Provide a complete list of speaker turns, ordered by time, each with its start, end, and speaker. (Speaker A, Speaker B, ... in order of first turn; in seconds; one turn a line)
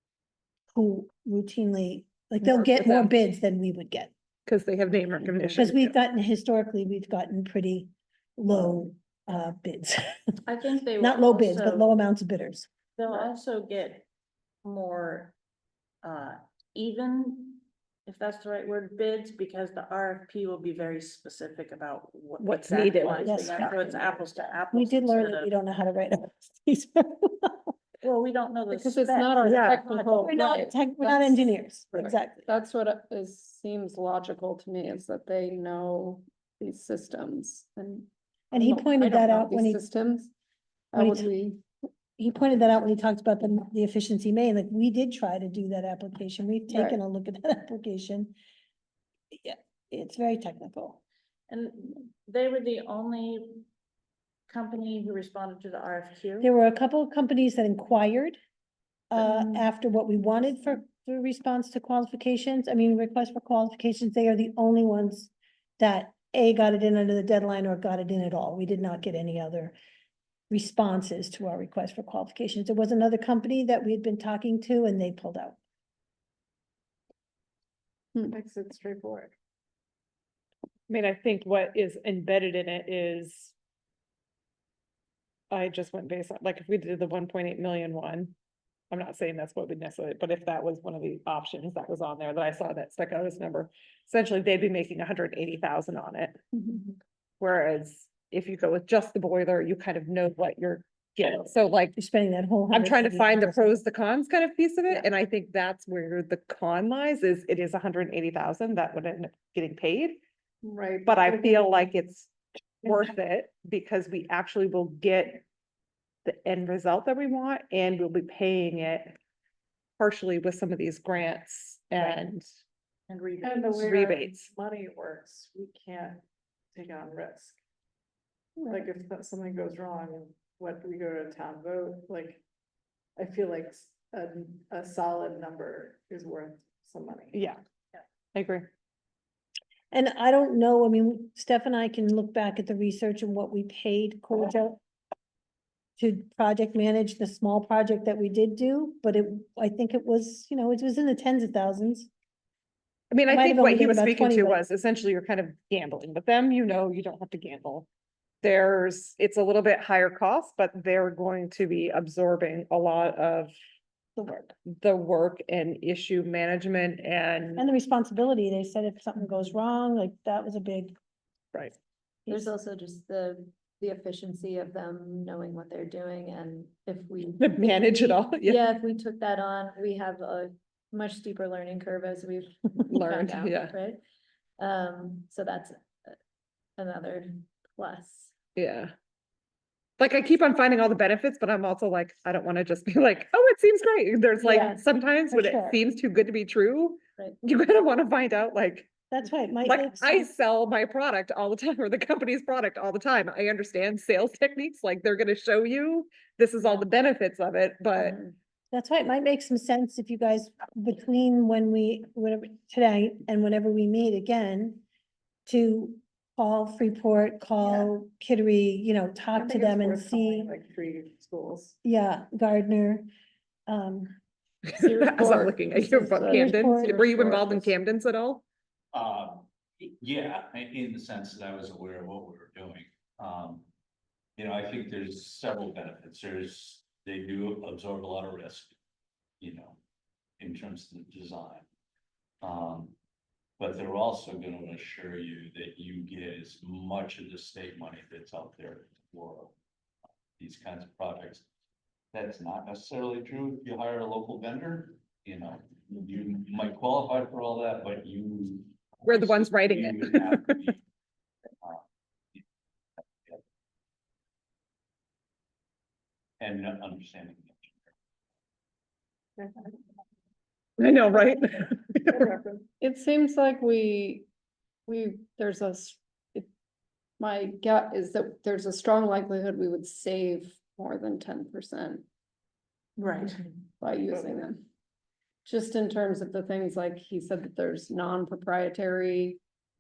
Speaker A: 0.7-4.1
Speaker B: 2.4-3.1
Speaker B: 4.5-5.9
Speaker A: 5.5-10.0
Speaker C: 10.5-11.9
Speaker A: 11.0-12.7
Speaker C: 13.0-14.1
Speaker C: 14.6-15.3
Speaker C: 16.0-25.6
Speaker B: 22.4-23.8
Speaker A: 23.2-23.9
Speaker A: 24.7-27.7
Speaker C: 28.0-30.7
Speaker D: 28.7-31.5
Speaker B: 29.5-29.8
Speaker A: 30.3-32.5
Speaker D: 32.0-40.3
Speaker A: 38.5-39.8
Speaker D: 40.9-41.6
Speaker A: 41.0-41.3
Speaker A: 42.2-48.3
Speaker D: 46.7-47.0
Speaker A: 49.4-51.0
Speaker C: 51.5-53.7
Speaker C: 54.5-56.5
Speaker A: 56.4-58.4
Speaker A: 59.1-69.8
Speaker A: 70.5-75.6
Speaker E: 78.3-79.3
Speaker B: 80.9-83.5
Speaker B: 85.5-88.3
Speaker B: 88.9-96.4
Speaker B: 97.4-102.0
Speaker A: 102.0-103.8
Speaker B: 102.7-110.2
Speaker D: 110.7-111.7
Speaker E: 110.9-111.2
Speaker B: 111.0-115.4
Speaker B: 116.2-119.2
Speaker B: 120.0-122.4
Speaker C: 123.1-123.8
Speaker E: 123.4-126.2
Speaker B: 123.8-124.5
Speaker E: 126.7-127.6
Speaker E: 128.6-132.4
Speaker E: 133.2-137.4
Speaker B: 137.3-137.6
Speaker B: 138.3-138.7
Speaker A: 139.9-144.8
Speaker A: 146.0-152.1
Speaker B: 153.1-157.9
Speaker A: 153.3-154.6
Speaker B: 158.4-163.5
Speaker A: 164.2-164.5
Speaker B: 164.3-167.6
Speaker A: 167.6-170.9
Speaker F: 172.3-177.4
Speaker B: 177.4-178.6
Speaker F: 178.4-184.0
Speaker B: 182.9-183.8
Speaker F: 184.6-186.2
Speaker F: 186.8-188.3
Speaker B: 188.6-188.9
Speaker B: 190.0-198.9
Speaker F: 194.4-194.8
Speaker A: 194.5-194.8
Speaker A: 195.3-195.8
Speaker A: 199.1-200.3
Speaker B: 199.7-208.2
Speaker F: 208.0-208.3
Speaker A: 208.7-214.8
Speaker A: 215.5-220.5
Speaker E: 219.3-221.8
Speaker A: 221.8-223.1
Speaker A: 223.7-224.1
Speaker B: 224.7-228.4
Speaker D: 224.7-227.5
Speaker A: 225.9-227.7
Speaker G: 228.9-233.7
Speaker G: 234.4-238.7
Speaker G: 239.4-239.8
Speaker G: 240.4-241.7
Speaker G: 242.4-242.9
Speaker G: 243.6-249.5
Speaker G: 250.4-251.5
Speaker G: 252.1-260.8
Speaker B: 259.0-260.7
Speaker G: 266.4-267.9
Speaker E: 269.4-269.7
Speaker B: 270.8-272.3
Speaker E: 272.1-272.7
Speaker D: 272.8-274.3
Speaker D: 274.9-276.5
Speaker D: 277.2-282.1
Speaker C: 283.0-283.4
Speaker D: 283.8-284.6
Speaker D: 285.4-289.4